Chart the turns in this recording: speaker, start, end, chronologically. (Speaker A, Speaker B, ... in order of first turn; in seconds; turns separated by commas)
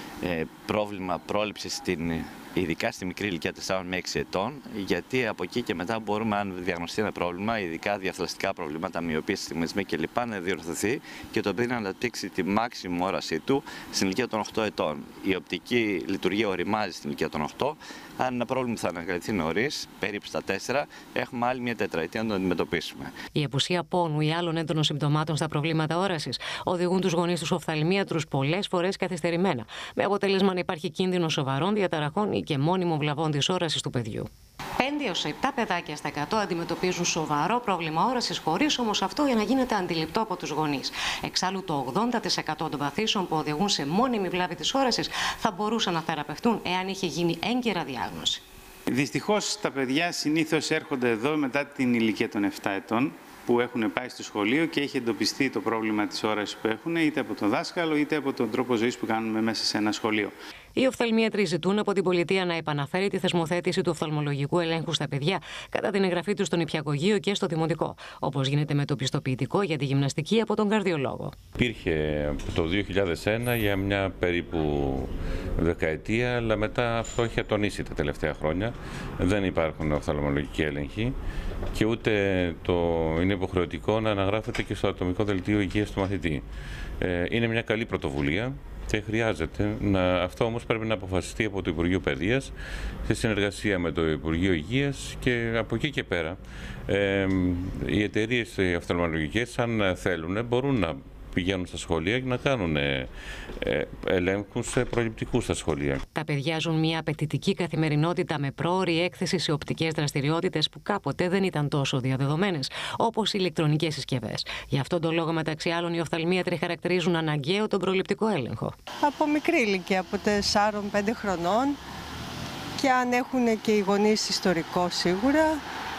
Speaker A: 0.2-23.1, Speaker B: 23.4-48.4, Speaker C: 48.9-60.3, Speaker B: 60.8-71.3, Speaker D: 71.6-81.1, Speaker D: 81.7-86.4, Speaker D: 87.0-92.5, Speaker D: 93.1-103.1, Speaker D: 103.6-106.0, Speaker B: 106.1-118.7, Speaker E: 119.0-121.8, Speaker E: 122.8-125.6